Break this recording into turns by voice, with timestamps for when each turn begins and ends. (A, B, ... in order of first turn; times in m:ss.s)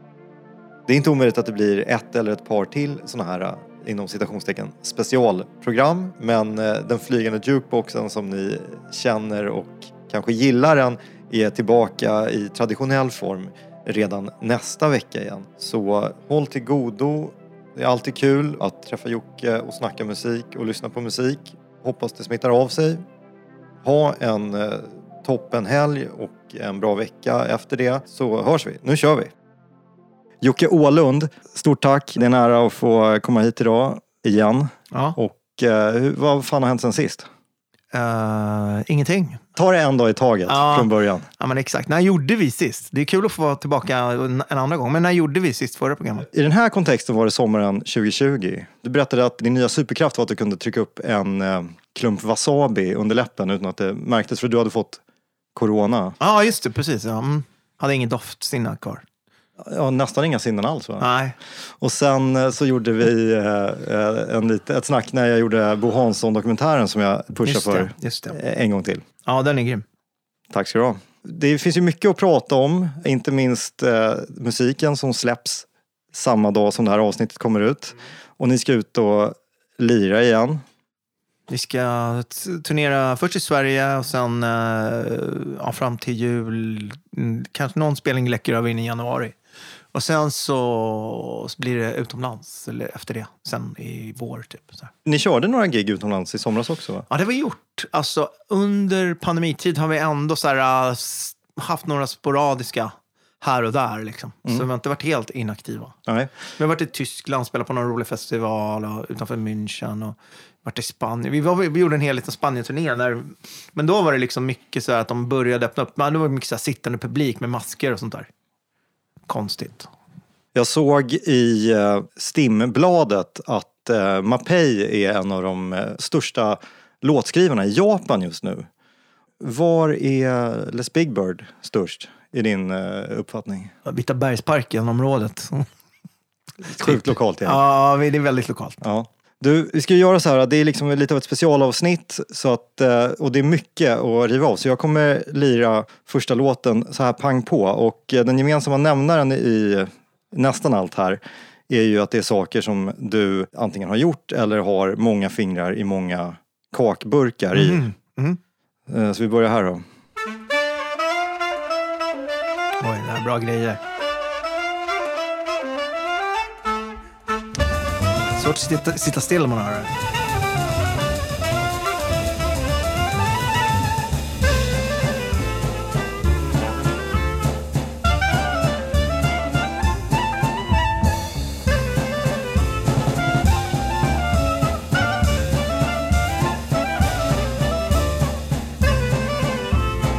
0:00.9-0:23.0 A
0:23.8-0:29.3 A
0:30.4-0:37.3 A
0:34.9-0:35.2 B
0:37.9-0:39.4 B
0:39.6-0:41.3 A
0:40.5-0:46.3 B
0:46.3-0:55.0 A
0:55.6-0:56.2 A
0:56.2-0:59.0 B
0:59.6-1:01.1 A
1:01.0-1:01.4 B
1:01.8-1:09.0 A
1:07.4-1:08.4 B
1:09.3-1:09.8 B
1:10.5-1:20.6 A
1:21.5-1:29.4 B
1:29.9-1:34.9 B
1:35.0-1:37.0 A
1:37.1-1:46.0 B
1:46.1-1:46.3 A
1:46.6-1:58.3 B
1:59.3-1:59.9 B
2:00.6-2:08.7 A
2:09.4-2:13.7 A
2:13.8-2:15.7 B
2:16.7-2:18.8 B
2:16.7-2:17.6 A
2:18.8-2:37.8 A
2:37.5-2:38.4 B
2:38.9-2:39.8 A
2:42.8-2:43.8 B
2:48.4-2:49.9 B